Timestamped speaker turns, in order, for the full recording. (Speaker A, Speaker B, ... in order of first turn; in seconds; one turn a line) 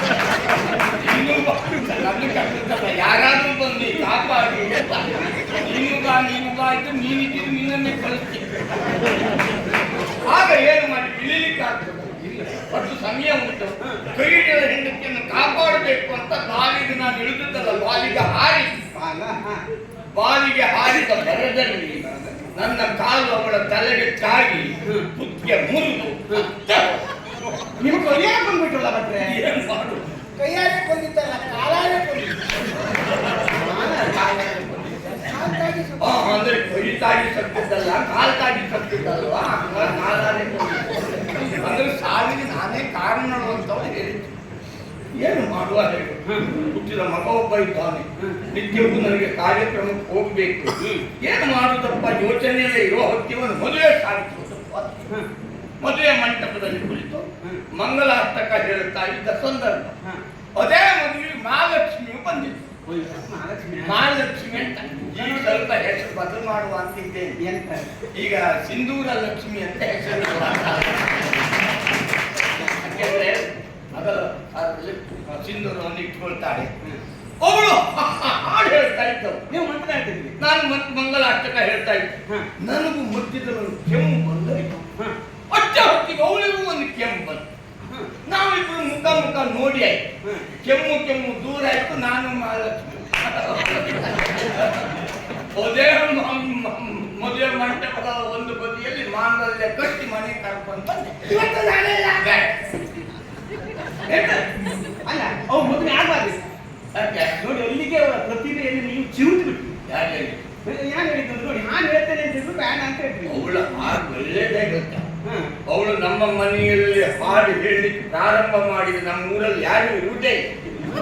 Speaker A: 1.0-8.6
Speaker A: 10.2-18.7
Speaker B: 12.2-12.6
Speaker B: 18.9-19.6
Speaker A: 20.1-27.0
Speaker B: 22.0-22.4
Speaker B: 27.8-29.4
Speaker A: 29.2-30.1
Speaker C: 30.4-32.5
Speaker B: 33.5-34.9
Speaker C: 35.3-36.2
Speaker A: 36.0-44.4
Speaker A: 45.1-46.2
Speaker A: 46.7-55.1
Speaker B: 50.8-51.1
Speaker A: 55.8-59.9
Speaker A: 60.6-62.7
Speaker B: 62.9-64.0
Speaker A: 63.9-67.4
Speaker B: 65.1-65.7
Speaker B: 67.4-67.9
Speaker A: 68.1-71.4
Speaker A: 72.7-76.7
Speaker A: 77.4-79.4
Speaker B: 79.5-80.4
Speaker A: 80.4-84.8
Speaker A: 85.5-87.5
Speaker B: 87.8-88.1
Speaker A: 88.3-90.0
Speaker A: 90.6-94.9
Speaker A: 95.5-101.4
Speaker C: 101.3-102.4
Speaker A: 102.2-102.5
Speaker A: 104.1-104.5
Speaker B: 105.1-106.4
Speaker A: 106.9-107.4
Speaker B: 107.4-109.8
Speaker A: 109.9-110.4
Speaker B: 110.7-113.5
Speaker A: 113.3-115.1
Speaker B: 115.3-115.5
Speaker A: 115.7-120.4